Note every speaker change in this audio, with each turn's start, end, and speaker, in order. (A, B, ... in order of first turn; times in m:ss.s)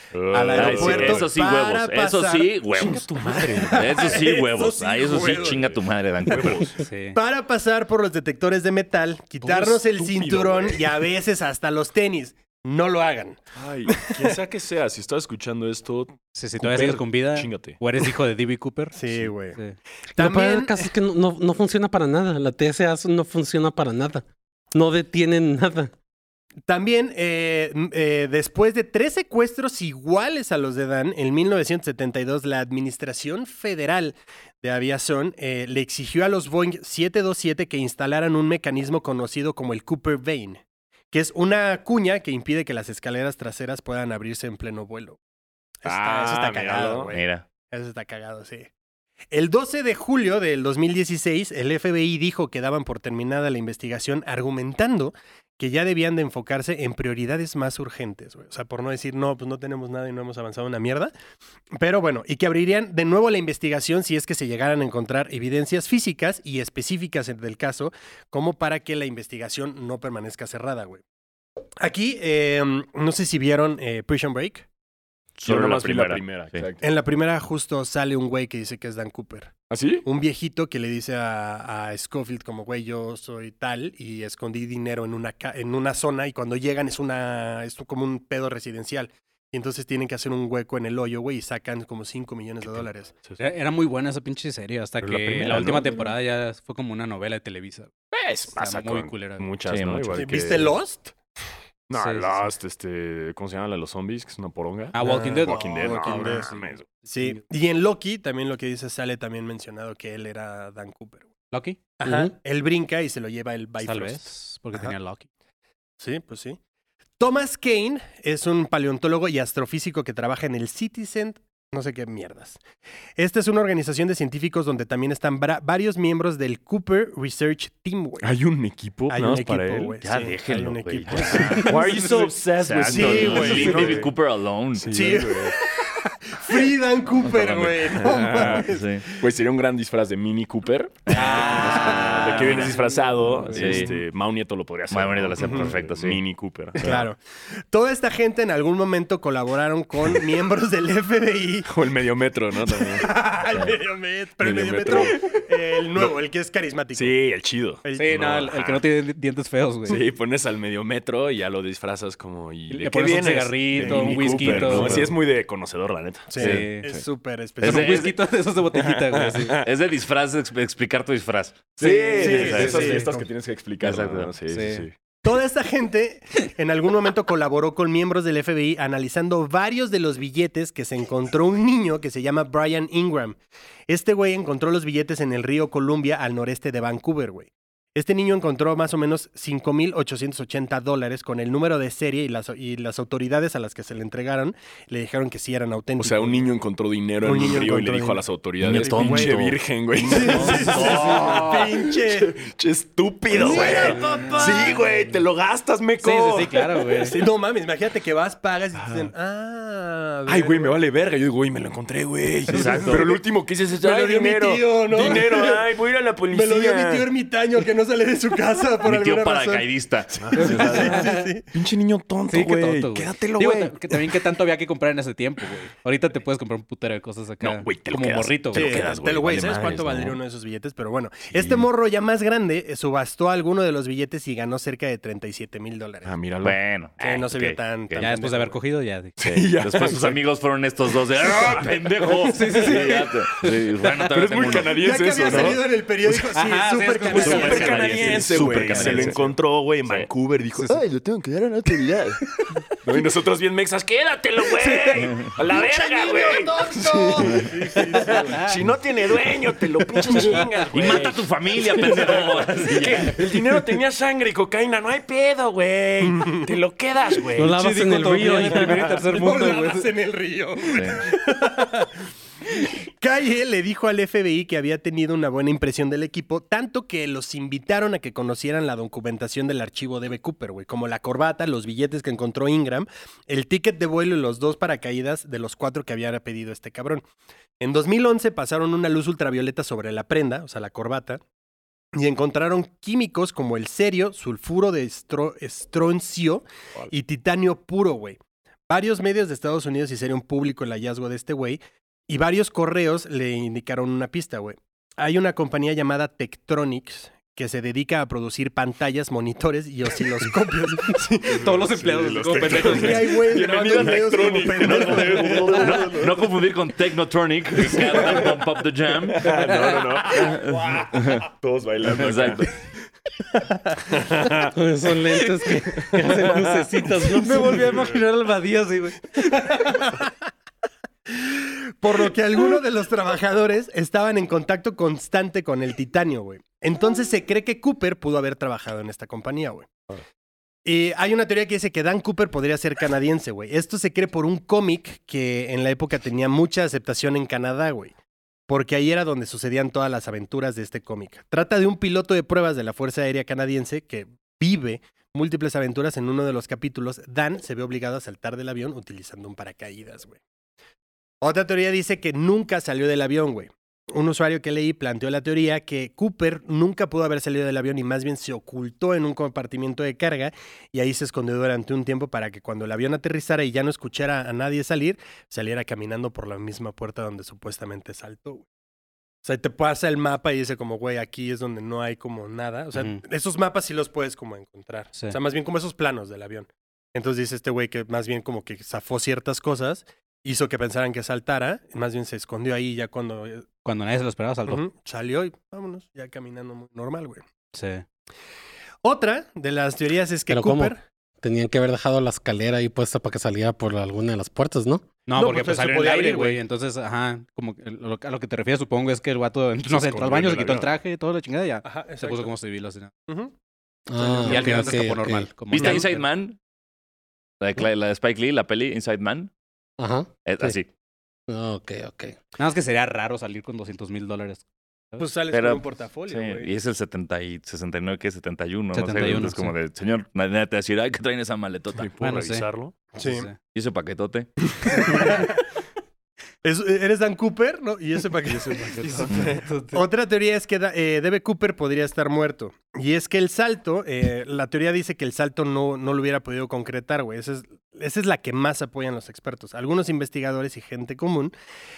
0:00.2-0:01.3 A
0:00.3-0:05.7 B
0:00.5-0:03.1 C
0:02.8-0:04.2 A
0:03.7-0:06.7 C
0:05.1-0:05.8 A
0:06.3-0:06.7 A
0:06.8-0:07.2 D
0:07.1-0:13.4 B
0:09.4-0:11.0 A
0:13.6-0:17.8 A
0:14.0-0:14.3 B
0:16.4-0:19.0 D
0:19.0-0:19.6 B
0:20.2-0:25.9 E
0:20.2-0:20.9 B
0:26.7-0:45.2 B
0:45.8-0:48.7 B
0:45.8-0:47.1 A
0:47.1-0:47.4 C
0:49.3-1:01.1 B
1:01.8-1:11.0 B
1:11.8-1:14.7 B
1:15.4-1:16.6 C
1:15.4-1:16.9 A
1:16.8-1:33.1 B
1:19.7-1:20.1 A
1:32.6-1:33.4 A
1:33.4-1:37.9 D
1:35.0-1:36.1 A
1:38.1-1:40.8 A
1:38.5-1:39.4 D
1:39.7-1:40.5 C
1:40.2-1:41.1 B
1:41.9-1:46.9 A
1:41.9-1:42.5 D
1:44.9-1:47.4 D
1:45.0-1:51.3 B
1:51.5-1:51.8 D
1:52.0-1:54.9 B
1:52.0-1:52.3 E
1:53.8-1:55.3 D
1:56.0-1:56.6 B
1:57.2-2:02.6 B
2:03.2-2:08.3 B
2:08.2-2:09.9 A
2:09.1-2:12.3 B
2:10.0-2:11.8 C
2:11.1-2:14.1 A
2:12.6-2:15.2 C
2:12.9-2:14.1 B
2:14.7-2:15.6 A
2:14.9-2:19.2 B
2:17.2-2:19.0 C
2:17.9-2:18.7 A
2:19.2-2:27.1 A
2:21.1-2:22.8 C
2:21.1-2:23.7 D
2:23.5-2:24.0 C
2:23.6-2:23.9 B
2:24.9-2:26.2 C
2:25.4-2:25.7 B
2:26.8-2:27.2 B
2:27.7-2:31.7 B
2:31.7-2:33.1 A
2:32.7-2:37.2 B
2:33.5-2:33.8 C
2:34.4-2:35.3 A
2:36.9-2:38.8 A
2:37.8-2:38.5 B
2:38.0-2:40.0 D
2:39.9-2:46.4 A
2:42.7-2:45.1 D
2:43.8-2:45.1 B
2:44.4-2:45.1 C
2:46.3-2:48.1 B
2:46.4-2:46.7 C
2:46.4-2:46.9 D
2:47.6-2:48.2 C
2:47.6-2:49.6 D
2:48.8-2:49.7 A
2:49.6-2:53.0 C
2:51.8-2:54.9 A
2:51.8-2:53.3 B
2:52.6-2:53.0 D
2:53.8-2:54.3 C
2:54.5-2:54.9 D
2:55.2-3:16.5 B
3:16.0-3:26.9 A
3:17.2-3:19.4 B
3:18.6-3:19.6 C
3:20.0-3:22.4 B
3:20.2-3:21.6 C
3:23.3-3:24.9 B
3:23.4-3:24.0 C
3:23.5-3:24.7 D
3:26.0-3:27.2 D
3:27.0-3:30.8 B
3:28.8-3:29.1 A
3:30.3-3:37.1 A
3:32.5-3:33.2 C
3:32.5-3:33.2 B
3:33.8-3:35.6 B
3:36.3-3:41.4 B
3:38.8-3:40.8 C
3:40.2-3:44.2 A
3:40.4-3:41.3 D
3:42.3-3:48.8 D
3:47.4-3:50.2 A
3:48.5-3:56.2 B
3:51.3-3:51.7 A
3:56.0-3:56.6 A
3:56.4-3:58.1 C
3:57.0-3:58.6 B
3:58.0-3:59.1 D
3:59.2-4:00.2 A
3:59.2-4:05.6 C
4:02.3-4:03.5 D
4:04.1-4:06.2 A
4:04.7-4:09.3 B
4:06.4-4:08.2 D
4:07.1-4:10.8 A
4:07.2-4:09.2 C
4:10.7-4:12.2 C
4:12.8-4:21.2 A
4:15.0-4:15.4 C
4:15.5-4:18.5 B
4:18.1-4:18.6 D
4:20.1-4:20.4 B
4:20.3-4:20.6 D
4:20.7-4:23.2 C
4:21.8-4:27.6 A
4:26.0-4:26.5 B
4:27.4-4:28.8 E
4:27.4-4:29.9 D
4:29.0-4:31.9 B
4:30.7-4:31.0 C
4:32.6-4:47.1 B
4:47.6-4:51.2 B
4:52.0-5:11.7 B
5:11.3-5:13.1 D
5:11.4-5:16.2 A
5:12.3-5:16.1 B
5:13.7-5:14.0 C
5:14.6-5:19.4 C
5:17.6-5:18.3 A
5:19.1-5:22.5 A
5:19.5-5:19.8 D
5:20.1-5:21.3 C
5:21.9-5:22.5 C
5:23.9-5:24.5 A
5:24.6-5:27.8 E
5:25.8-5:26.6 A
5:27.1-5:29.4 D
5:27.5-5:27.8 A
5:29.3-5:30.1 B
5:31.1-5:39.8 B
5:40.6-5:47.9 B
5:48.5-6:00.2 B
6:01.2-6:18.4 B
6:19.2-6:33.5 B
6:22.8-6:23.0 D
6:33.6-6:34.6 D
6:34.5-6:37.2 B
6:37.5-6:37.8 D
6:38.8-6:40.8 B
6:40.3-6:44.9 E
6:45.1-6:52.9 D
6:45.2-6:46.4 B
6:49.7-6:50.7 A
6:51.6-6:52.3 B
6:53.1-6:53.3 B
6:53.9-6:55.4 E
6:54.0-6:54.7 B
6:54.2-6:56.1 D
6:55.5-6:56.4 C
6:57.4-6:59.3 C
6:59.8-7:00.6 E
7:00.2-7:00.7 C
7:01.3-7:02.2 E
7:02.4-7:05.0 D
7:05.0-7:06.5 B
7:05.3-7:11.9 C
7:08.7-7:09.5 D
7:11.8-7:12.8 A
7:12.0-7:12.5 D
7:13.0-7:13.3 B
7:13.0-7:13.4 D
7:13.5-7:14.3 C
7:14.6-7:15.3 B
7:16.4-7:19.1 B
7:18.6-7:19.8 D
7:19.1-7:19.4 A
7:19.7-7:31.3 B